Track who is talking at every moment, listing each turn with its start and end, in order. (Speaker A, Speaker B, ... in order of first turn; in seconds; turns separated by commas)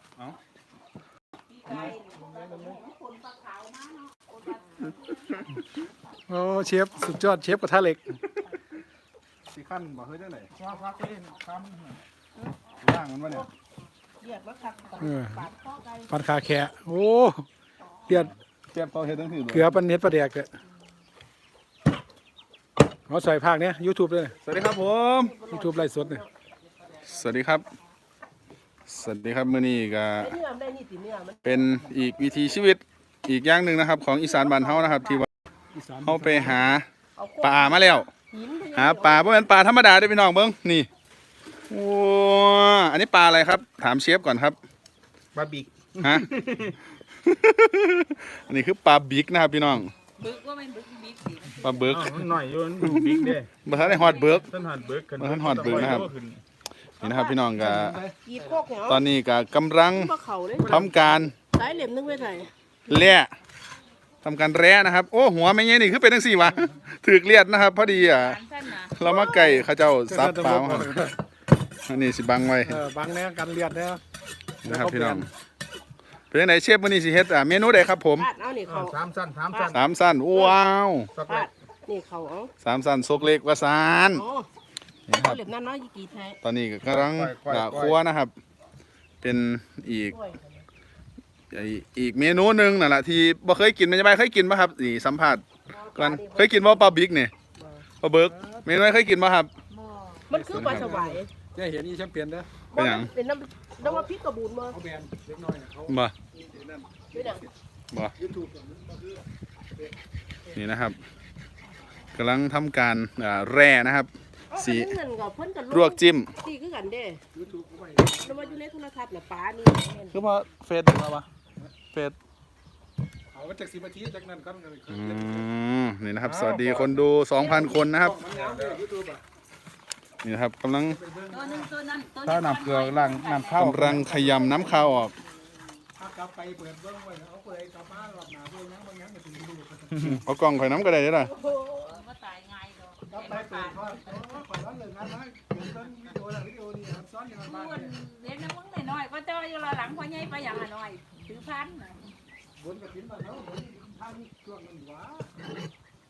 Speaker A: 1.5-5.6, Speaker B: 1.8-2.8, Speaker B: 6.3-8.2, Speaker C: 9.5-10.5, Speaker D: 10.6-12.0, Speaker C: 12.8-13.4, Speaker E: 14.2-16.3, Speaker B: 15.0-15.5, Speaker B: 16.1-17.4, Speaker B: 18.1-18.3, Speaker C: 18.7-19.8, Speaker B: 19.5-20.5, Speaker B: 23.1-24.3, Speaker C: 24.4-25.3, Speaker E: 25.2-26.3, Speaker B: 25.5-26.2, Speaker C: 27.1-27.6, Speaker C: 28.9-30.3, Speaker E: 30.2-31.5, Speaker C: 31.4-35.3, Speaker E: 34.8-35.2, Speaker B: 35.7-36.6, Speaker C: 36.0-36.9, Speaker E: 37.1-39.5, Speaker C: 37.4-38.1, Speaker C: 38.7-40.9, Speaker C: 41.7-44.6, Speaker D: 45.3-46.8, Speaker C: 46.0-46.3, Speaker C: 47.2-49.9, Speaker A: 50.2-52.1, Speaker C: 51.6-52.3, Speaker D: 51.9-56.4, Speaker C: 52.8-54.5, Speaker A: 53.8-54.5, Speaker C: 55.2-56.1, Speaker C: 57.0-58.0, Speaker E: 57.0-57.4, Speaker B: 57.6-58.1, Speaker E: 58.2-59.1, Speaker C: 58.9-61.3, Speaker E: 59.9-60.9, Speaker D: 60.7-61.0, Speaker E: 61.4-62.5, Speaker C: 62.9-63.3, Speaker C: 64.2-68.4, Speaker A: 67.8-69.0, Speaker C: 68.9-71.1, Speaker E: 69.0-69.7, Speaker B: 70.1-71.1, Speaker C: 71.8-72.8, Speaker B: 72.6-74.0, Speaker B: 74.6-75.3, Speaker C: 74.6-75.3, Speaker C: 76.3-78.3, Speaker E: 78.1-79.8, Speaker D: 78.7-79.8, Speaker C: 79.7-81.1, Speaker D: 81.1-81.5, Speaker E: 81.2-82.5, Speaker C: 82.6-84.2, Speaker E: 84.1-84.5, Speaker C: 85.1-85.4, Speaker E: 85.1-86.4, Speaker C: 86.4-88.3, Speaker D: 86.9-88.0, Speaker C: 89.2-90.2, Speaker E: 90.1-90.7, Speaker C: 91.5-95.4, Speaker E: 95.7-97.0, Speaker C: 95.9-97.3, Speaker E: 97.5-97.9, Speaker C: 98.0-99.5, Speaker B: 98.3-98.6, Speaker A: 99.7-100.2, Speaker E: 100.3-101.3, Speaker B: 100.3-102.5, Speaker C: 100.5-100.9, Speaker E: 102.7-104.8, Speaker C: 102.7-103.1, Speaker B: 104.7-107.5, Speaker C: 105.9-106.1, Speaker E: 107.1-107.4, Speaker B: 108.2-109.2, Speaker C: 110.5-111.0, Speaker C: 112.2-115.0, Speaker E: 114.5-117.2, Speaker C: 115.7-116.3, Speaker B: 117.3-118.6, Speaker E: 118.2-120.2, Speaker D: 120.1-120.5, Speaker C: 120.4-121.2, Speaker B: 123.3-125.4, Speaker C: 124.9-128.2, Speaker B: 126.3-126.9, Speaker D: 126.3-126.8, Speaker B: 128.0-129.2, Speaker D: 128.2-128.8, Speaker C: 130.2-131.0, Speaker B: 130.9-131.7, Speaker A: 131.3-135.8, Speaker D: 132.2-134.4, Speaker C: 133.5-135.1, Speaker B: 136.0-140.0, Speaker C: 140.0-141.3, Speaker E: 141.2-142.0, Speaker A: 141.8-144.2, Speaker B: 143.1-147.9, Speaker A: 147.4-152.1, Speaker B: 152.6-155.3